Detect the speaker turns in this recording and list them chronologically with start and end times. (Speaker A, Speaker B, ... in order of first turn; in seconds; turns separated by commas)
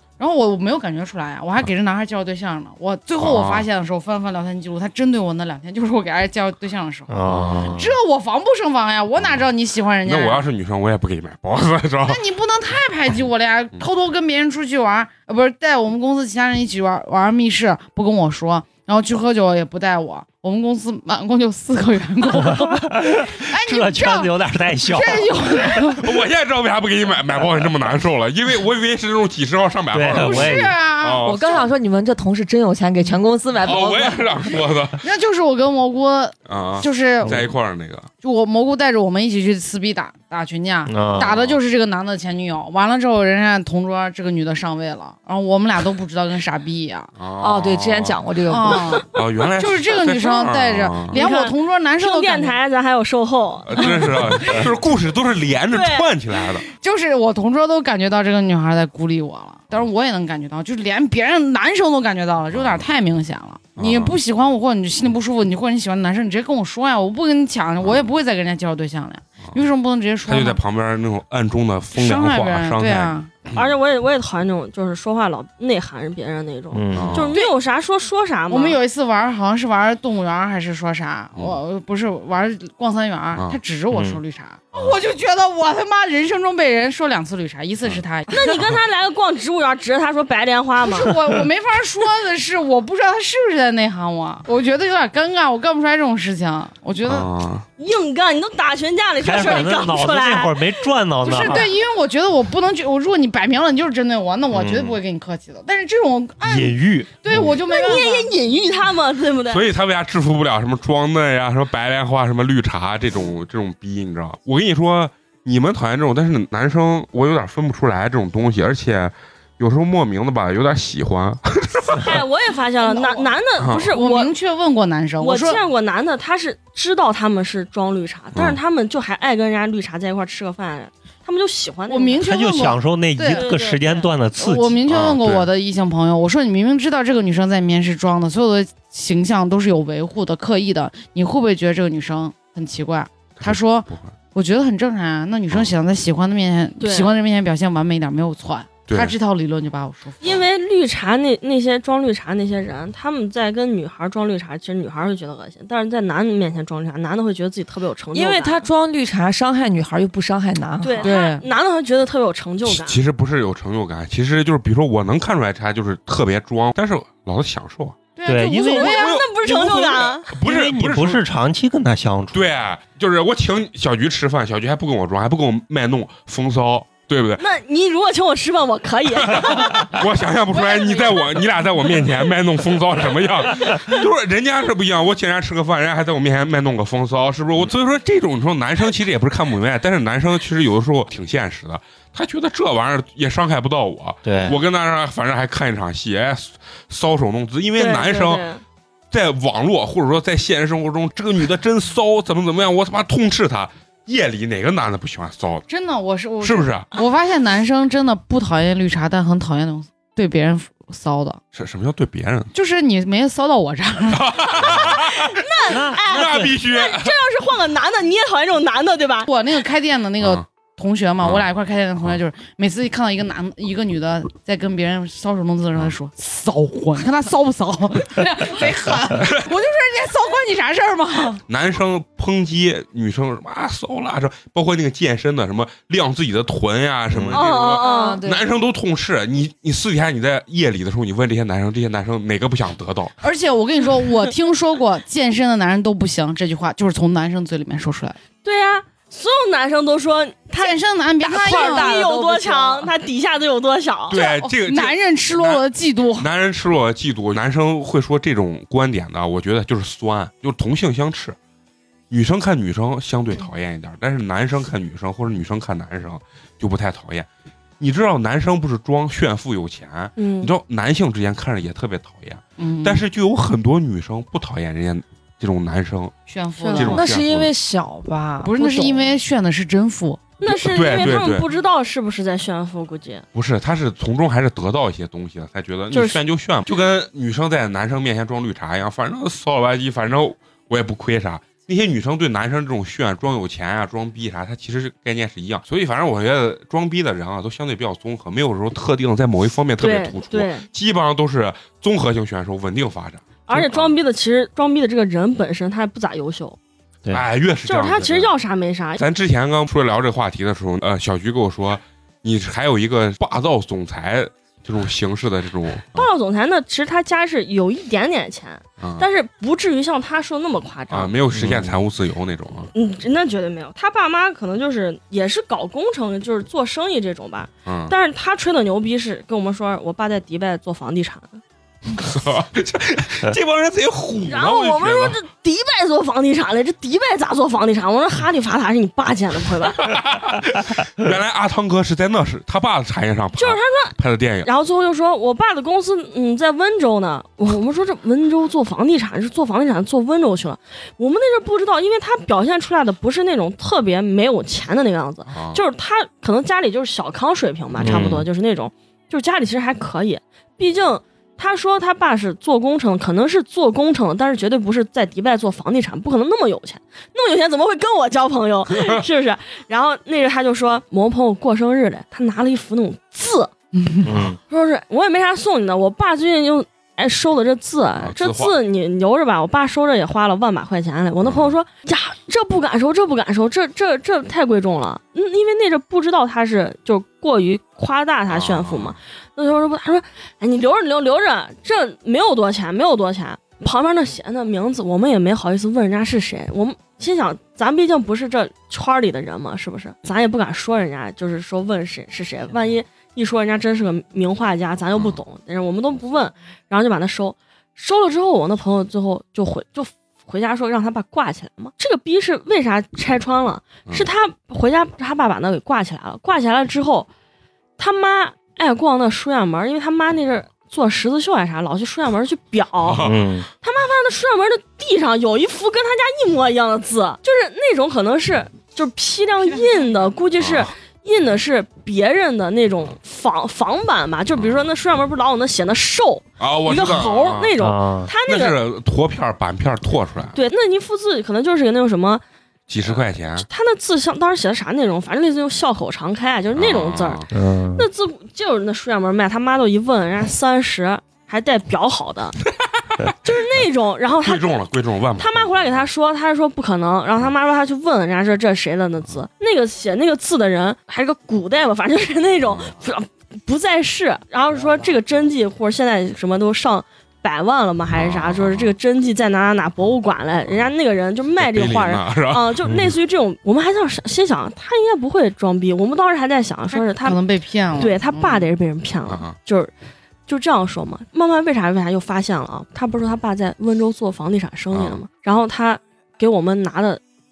Speaker A: 0.2-10.5, Speaker B: 3.2-3.7, Speaker C: 7.1-7.9, Speaker B: 7.2-7.8, Speaker B: 10.0-12.2, Speaker A: 12.1-26.2, Speaker C: 22.3-25.8, Speaker B: 25.8-31.7, Speaker C: 29.9-30.7, Speaker A: 30.1-31.6, Speaker D: 31.2-34.5, Speaker B: 33.6-35.1, Speaker A: 35.0-37.4, Speaker B: 36.5-38.1, Speaker A: 38.2-47.1, Speaker C: 40.9-41.3, Speaker B: 41.2-41.6, Speaker B: 47.2-48.2, Speaker D: 47.4-48.9, Speaker A: 48.5-52.6, Speaker B: 49.1-51.2, Speaker E: 51.1-54.5, Speaker B: 53.7-56.7, Speaker E: 55.7-56.1, Speaker A: 56.8-70.6, Speaker B: 62.5-62.9, Speaker B: 63.8-64.2, Speaker B: 67.8-68.1, Speaker B: 70.3-73.7, Speaker A: 72.0-73.3, Speaker E: 73.5-78.8, Speaker C: 76.7-77.3, Speaker B: 76.9-77.4, Speaker A: 78.5-88.6, Speaker C: 83.9-84.2, Speaker E: 88.3-91.1, Speaker A: 90.8-97.3, Speaker B: 97.0-97.7, Speaker E: 97.8-100.7, Speaker C: 99.2-101.7, Speaker A: 101.2-108.3, Speaker E: 101.4-101.7, Speaker C: 104.5-104.9, Speaker C: 106.4-107.5, Speaker E: 107.7-109.7, Speaker B: 109.5-122.2, Speaker E: 121.9-124.3, Speaker A: 122.8-123.3, Speaker B: 123.6-123.9, Speaker A: 123.9-125.6, Speaker E: 125.2-132.2, Speaker B: 128.3-128.6, Speaker A: 131.9-133.6, Speaker C: 132.2-134.8, Speaker E: 133.2-134.1, Speaker A: 134.4-150.4, Speaker B: 134.9-135.5, Speaker B: 143.4-144.1, Speaker E: 146.8-147.1, Speaker B: 148.9-149.2, Speaker E: 150.2-158.7, Speaker D: 158.1-161.2, Speaker E: 160.8-163.0, Speaker A: 161.0-161.4, Speaker B: 162.7-168.0, Speaker A: 168.2-169.6, Speaker C: 168.3-169.0, Speaker E: 168.6-170.3, Speaker B: 168.9-171.2, Speaker C: 170.4-172.5, Speaker B: 172.3-177.4, Speaker E: 177.4-180.0, Speaker B: 179.2-198.5, Speaker A: 180.7-181.1, Speaker C: 194.2-194.6, Speaker E: 197.8-198.6, Speaker B: 199.1-205.7, Speaker A: 205.7-211.4, Speaker B: 206.4-206.9, Speaker B: 211.5-212.5, Speaker A: 212.5-214.8, Speaker B: 214.1-217.2, Speaker E: 214.6-219.3, Speaker C: 215.7-216.5, Speaker A: 219.3-231.4, Speaker B: 220.2-220.4, Speaker B: 229.2-229.5, Speaker B: 231.5-243.1, Speaker E: 237.3-238.2, Speaker D: 237.8-238.5, Speaker A: 243.2-248.2, Speaker E: 248.4-250.8, Speaker A: 250.6-252.0, Speaker D: 251.2-252.9, Speaker E: 251.3-254.2, Speaker B: 254.1-255.6, Speaker A: 254.1-256.3, Speaker B: 256.1-261.4, Speaker B: 262.1-267.3, Speaker B: 267.8-276.1, Speaker E: 270.2-270.5, Speaker A: 272.6-273.0, Speaker A: 276.3-277.1, Speaker D: 276.7-279.2, Speaker B: 276.7-277.5, Speaker A: 278.4-280.4, Speaker E: 280.4-283.2, Speaker B: 280.5-281.5, Speaker B: 283.3-304.0, Speaker E: 285.9-286.2, Speaker E: 299.8-300.7, Speaker E: 303.5-306.6, Speaker B: 307.1-308.3, Speaker E: 307.6-309.0, Speaker B: 309.0-316.1, Speaker E: 315.9-321.1, Speaker B: 318.8-319.1, Speaker B: 320.9-322.7, Speaker C: 321.4-321.7, Speaker E: 322.7-331.4, Speaker B: 327.7-328.0, Speaker B: 332.0-335.2, Speaker E: 334.3-340.0, Speaker B: 339.7-344.5, Speaker E: 343.4-373.5, Speaker B: 355.3-355.6, Speaker C: 357.8-358.3, Speaker B: 357.8-358.1, Speaker B: 368.8-369.0, Speaker A: 373.8-374.1, Speaker C: 374.0-374.4, Speaker E: 374.5-417.1, Speaker B: 378.0-378.6, Speaker B: 381.2-381.6, Speaker B: 388.3-389.0, Speaker E: 417.8-423.1, Speaker B: 422.8-423.3, Speaker C: 423.0-423.5, Speaker E: 423.6-438.6, Speaker B: 430.4-430.7, Speaker B: 434.3-434.7, Speaker B: 436.4-437.6, Speaker C: 437.6-438.1, Speaker B: 438.2-440.4, Speaker E: 440.3-442.2, Speaker B: 442.7-443.5, Speaker E: 443.4-452.4, Speaker B: 446.6-447.3, Speaker C: 447.3-447.9, Speaker E: 453.2-454.6, Speaker B: 454.2-455.9, Speaker E: 455.2-477.2, Speaker B: 467.9-468.7, Speaker B: 471.4-472.6, Speaker A: 476.7-478.5, Speaker E: 477.8-479.7, Speaker B: 479.1-479.4, Speaker E: 480.3-487.0, Speaker B: 484.7-485.0